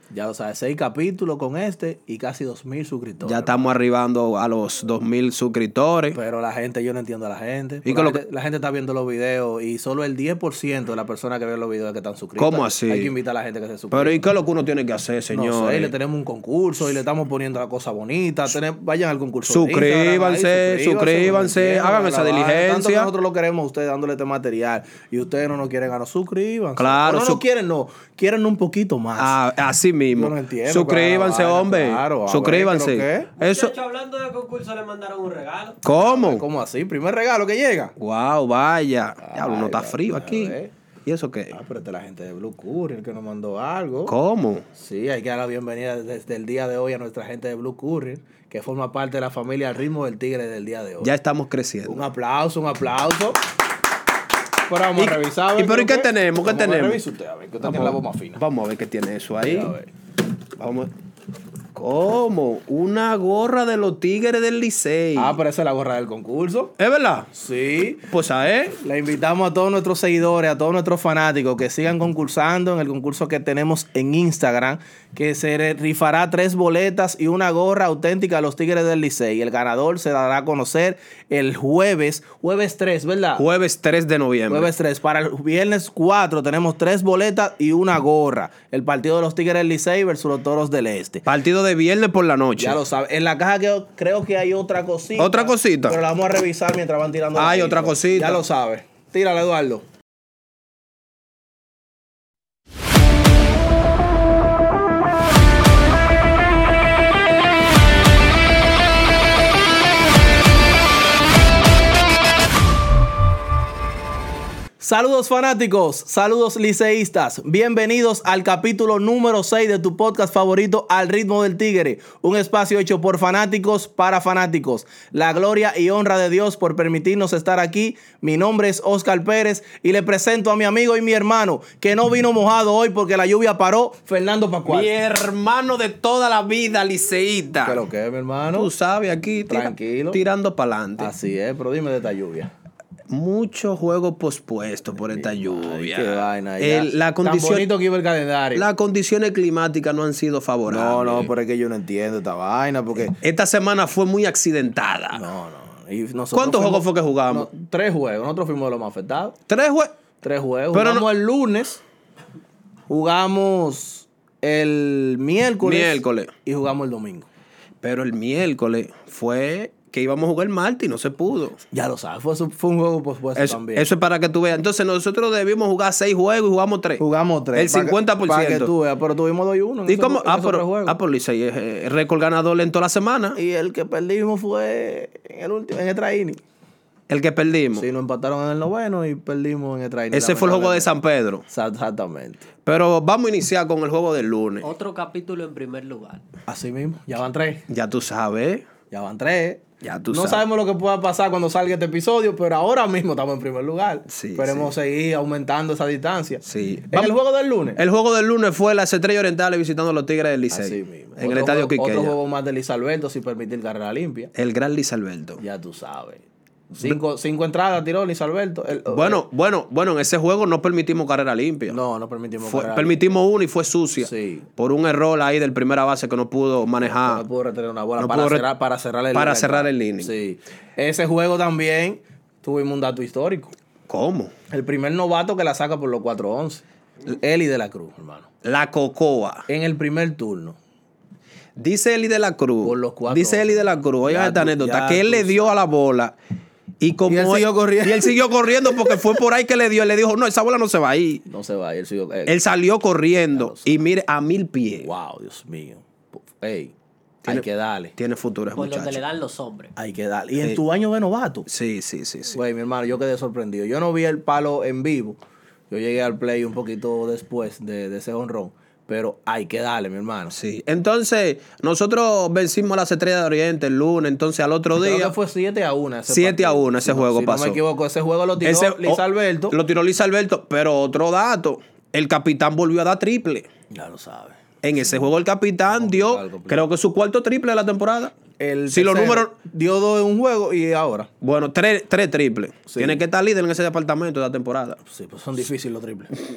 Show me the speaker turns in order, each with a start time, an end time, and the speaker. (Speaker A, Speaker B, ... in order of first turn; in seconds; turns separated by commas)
Speaker A: 0.1-3.7, Speaker B: 3.2-6.2, Speaker A: 6.1-14.2, Speaker B: 7.8-8.2, Speaker B: 12.4-13.1, Speaker B: 13.9-15.9, Speaker A: 15.3-29.4, Speaker B: 19.5-23.1, Speaker B: 26.8-27.4, Speaker B: 29.2-33.7, Speaker A: 30.1-33.3, Speaker C: 33.4-35.8, Speaker B: 35.8-36.4, Speaker A: 36.0-37.9, Speaker B: 38.0-41.5, Speaker A: 39.2-40.7, Speaker A: 41.5-44.1, Speaker B: 44.1-44.6, Speaker A: 44.8-51.1, Speaker B: 51.0-52.0, Speaker A: 51.9-53.4, Speaker A: 54.7-58.4, Speaker B: 55.0-57.0, Speaker B: 57.6-59.7, Speaker A: 59.4-59.9, Speaker B: 60.5-60.9, Speaker B: 61.7-65.4, Speaker A: 65.2-66.7, Speaker B: 66.8-67.3, Speaker A: 67.3-68.1, Speaker B: 68.1-68.8, Speaker A: 68.8-83.4, Speaker B: 83.4-84.7, Speaker A: 84.5-91.2, Speaker B: 91.2-92.8, Speaker A: 92.6-99.8, Speaker B: 95.2-96.0, Speaker B: 97.3-98.4, Speaker A: 114.8-134.9, Speaker B: 134.7-137.8, Speaker A: 137.6-138.7, Speaker B: 138.5-141.1, Speaker A: 139.5-140.2, Speaker A: 141.0-142.5, Speaker B: 143.1-147.7, Speaker A: 145.0-148.6, Speaker B: 148.5-151.3, Speaker A: 150.7-153.2, Speaker B: 153.2-155.2, Speaker A: 155.1-159.4, Speaker B: 156.3-157.5, Speaker B: 159.5-159.9, Speaker A: 160.2-161.8, Speaker B: 160.7-161.1, Speaker A: 162.9-167.3, Speaker B: 165.6-166.3, Speaker B: 167.8-171.6, Speaker A: 171.7-173.9, Speaker B: 173.3-178.7, Speaker A: 177.0-181.0, Speaker B: 179.9-183.4, Speaker A: 183.3-186.4, Speaker B: 187.1-187.8, Speaker A: 187.8-190.9, Speaker B: 190.1-191.4, Speaker A: 191.5-192.5, Speaker B: 192.6-194.7, Speaker C: 194.6-196.2, Speaker A: 196.5-197.6, Speaker B: 197.7-198.7, Speaker A: 198.9-207.8, Speaker B: 199.8-200.4, Speaker B: 204.1-204.7, Speaker B: 206.4-207.1, Speaker B: 207.8-212.1, Speaker A: 210.5-214.3, Speaker B: 214.3-215.4, Speaker A: 215.4-219.2, Speaker B: 218.9-221.8, Speaker A: 221.7-222.9, Speaker B: 222.4-227.2, Speaker A: 224.0-224.5, Speaker A: 226.8-233.5, Speaker B: 228.0-228.4, Speaker B: 229.1-230.1, Speaker B: 233.9-234.3, Speaker A: 234.5-238.3, Speaker B: 238.4-239.5, Speaker A: 239.5-240.6, Speaker B: 241.6-246.2, Speaker A: 242.6-245.5, Speaker B: 246.8-251.2, Speaker A: 247.1-248.2, Speaker A: 251.2-252.4, Speaker B: 252.2-254.9, Speaker A: 253.3-253.8, Speaker A: 254.8-257.9, Speaker B: 258.0-259.0, Speaker C: 258.6-259.7, Speaker A: 259.8-261.5, Speaker B: 261.5-262.4, Speaker A: 262.3-265.2, Speaker A: 265.7-270.3, Speaker B: 270.3-275.1, Speaker A: 274.8-279.6, Speaker B: 276.1-277.6, Speaker B: 278.4-283.5, Speaker A: 283.7-285.1, Speaker B: 284.6-288.1, Speaker A: 285.7-286.6, Speaker A: 288.4-291.1, Speaker B: 288.7-289.3, Speaker B: 291.2-294.8, Speaker A: 292.7-293.0, Speaker A: 294.9-296.1